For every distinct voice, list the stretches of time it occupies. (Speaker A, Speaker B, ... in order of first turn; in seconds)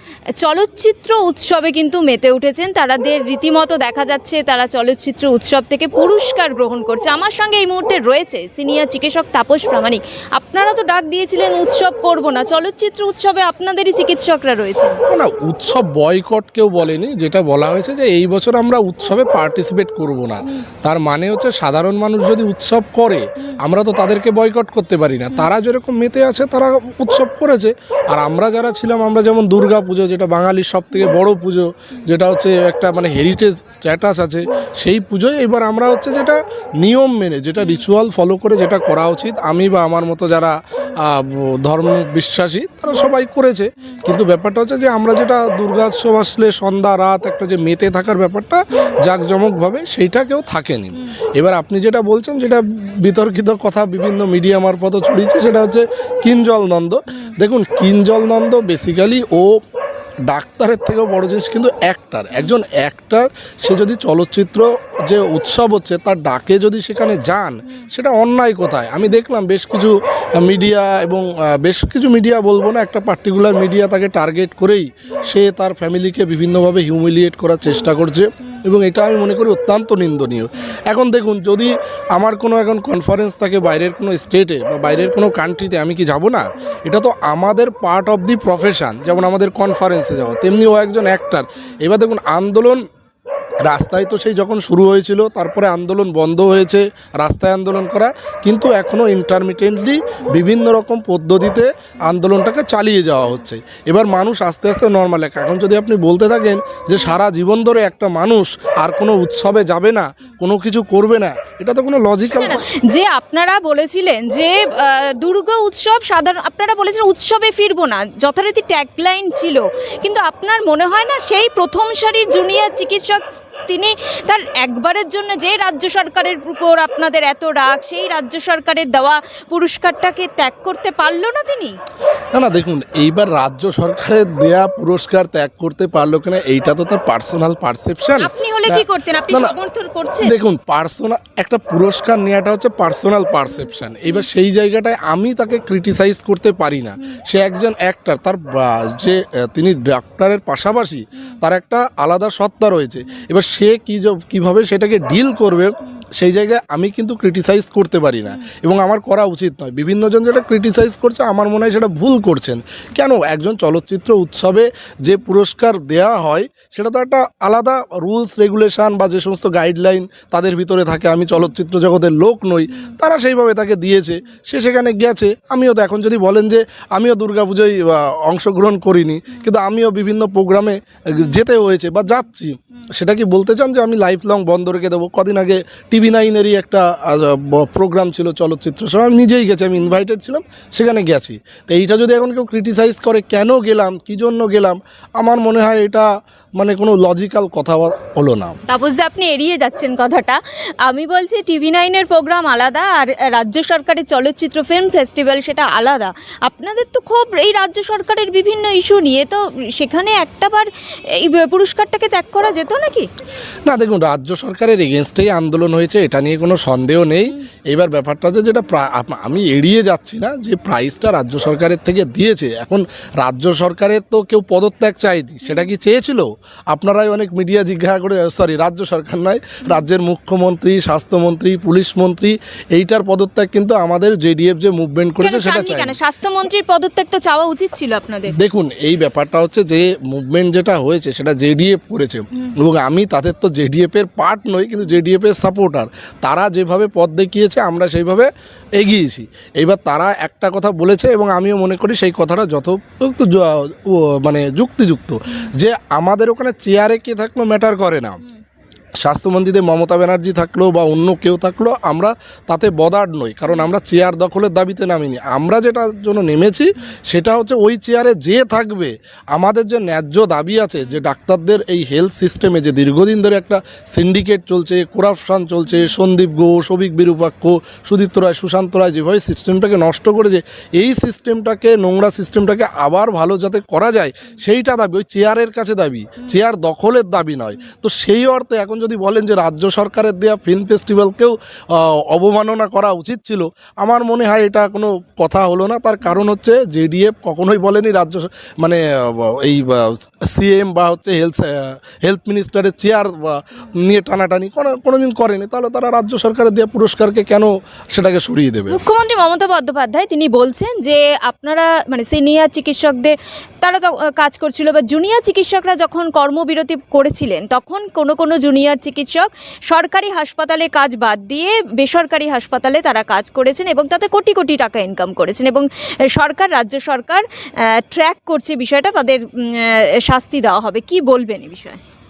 Speaker A: 0.4-15.0, 37.6-37.8, 112.3-131.8, 138.2-140.3, 143.5-144.2, 198.7-213.1, 235.2-238.3, 308.7-331.8
Speaker B: 15.1-59.5, 60.3-92.8, 93.6-112.6, 132.3-139.6, 140.2-198.6, 213.7-235.9, 238.3-258.2, 259.0-308.8